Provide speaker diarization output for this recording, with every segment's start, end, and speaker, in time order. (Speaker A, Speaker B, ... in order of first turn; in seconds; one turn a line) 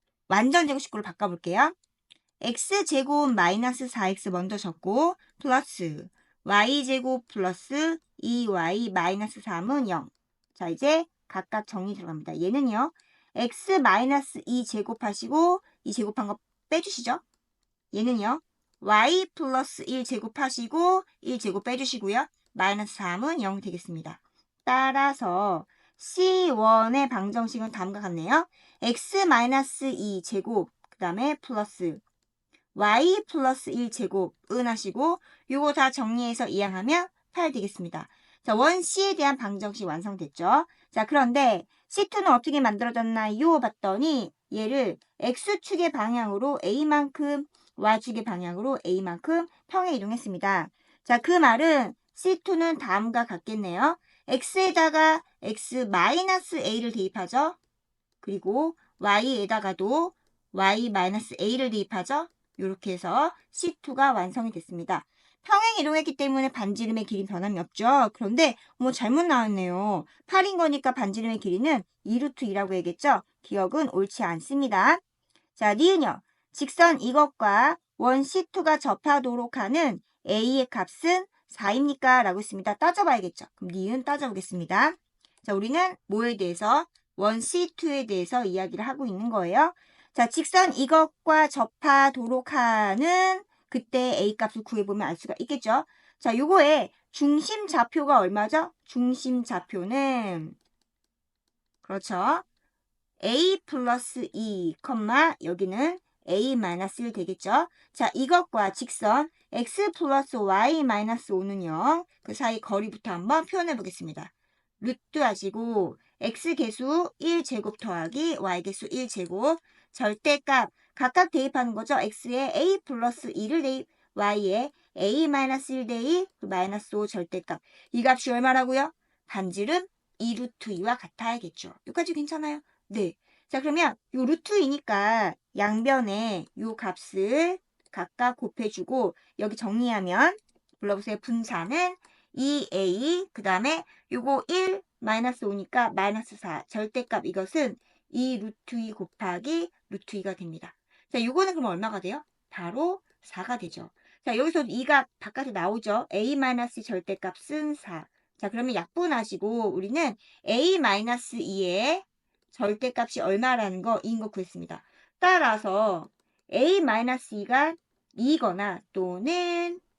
Speaker A: 0.3-1.7
Speaker A: 2.4-17.2
Speaker A: 17.9-32.0
Speaker A: 32.7-57.6
Speaker A: 58.2-75.0
Speaker A: 75.5-100.5
Speaker A: 101.8-102.4
Speaker A: 103.2-169.8